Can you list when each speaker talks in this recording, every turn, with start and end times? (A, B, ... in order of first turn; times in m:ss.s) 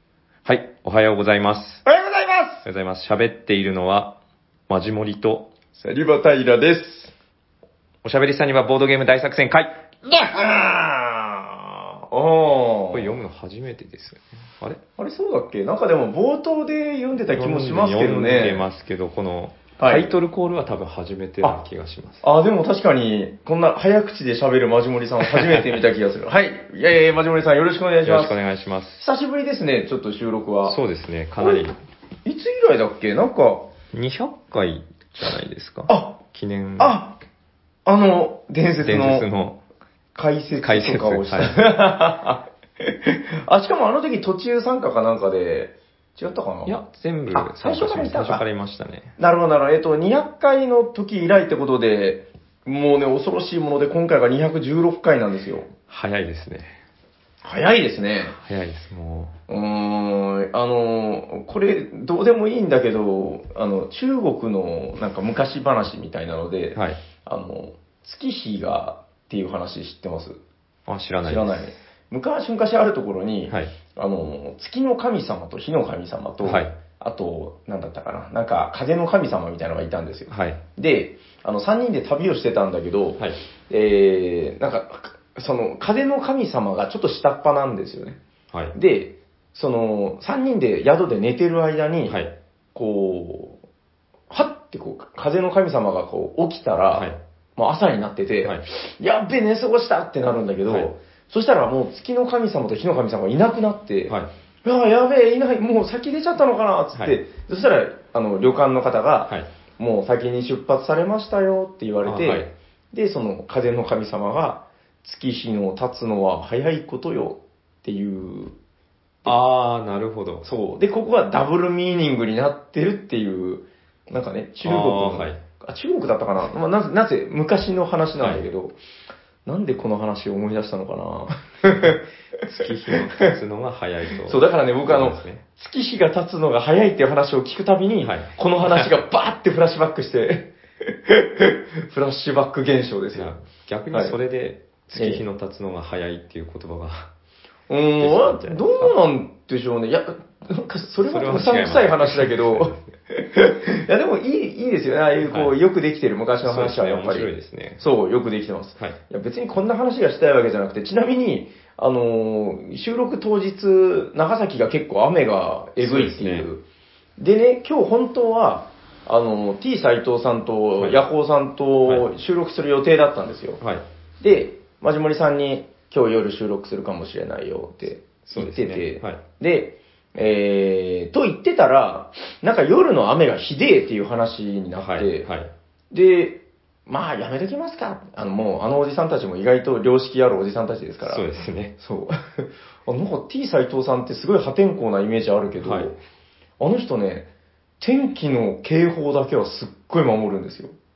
0:00.6-0:01.8 A
0:01.8-0:02.6 B
0:02.6-0:04.2 A
0:04.7-0:05.5 A
0:05.7-0:07.1 B
0:08.0-0:09.7 A
0:10.0-0:13.1 B
0:12.9-0:14.8 A
0:15.0-0:18.6 B
0:17.3-0:22.2 A
0:19.8-0:20.1 B
0:22.2-0:28.4 B
0:28.0-0:29.0 A
0:29.0-0:30.8 B
0:30.6-0:31.8 A
0:32.2-0:33.7 B
0:33.9-0:37.0 A
0:35.9-0:36.2 B
0:36.8-0:37.2 B
0:37.8-0:39.2 B
0:38.8-0:39.6 A
0:40.1-0:46.8 B
0:40.6-0:41.7 A
0:46.6-0:49.2 A
0:47.3-0:48.4 B
0:49.2-0:55.7 B
0:55.9-0:56.8 A
0:57.4-0:58.4 B
0:58.3-0:59.3 A
0:59.5-1:10.4 B
1:06.7-1:07.0 A
1:10.9-1:11.7 A
1:11.2-1:28.2 B
1:13.5-1:13.7 A
1:16.4-1:16.8 A
1:20.3-1:20.6 A
1:28.7-1:32.2 B
1:32.1-1:32.3 A
1:32.7-1:33.6 B
1:34.3-1:58.5 B
1:36.9-1:37.2 A
1:40.6-1:40.9 A
1:52.0-1:52.5 A
1:59.2-2:00.5 A
2:00.4-2:08.8 B
2:04.6-2:05.4 A
2:08.2-2:08.4 A
2:09.4-2:12.6 B
2:12.4-2:15.4 A
2:14.2-2:23.3 B
2:18.0-2:18.9 A
2:23.1-2:27.1 A
2:25.0-2:25.2 B
2:27.7-2:37.3 B
2:28.0-2:28.9 A
2:31.0-2:32.9 A
2:35.2-2:35.6 A
2:36.4-2:37.8 A
2:37.8-2:46.6 B
2:45.8-2:46.5 A
2:47.2-2:53.6 B
2:54.2-3:05.3 B
2:58.3-2:59.2 A
3:04.8-3:05.5 A
3:05.9-3:11.2 B
3:11.0-3:11.7 A
3:11.8-3:16.0 B
3:15.6-3:16.0 A
3:16.6-3:20.7 B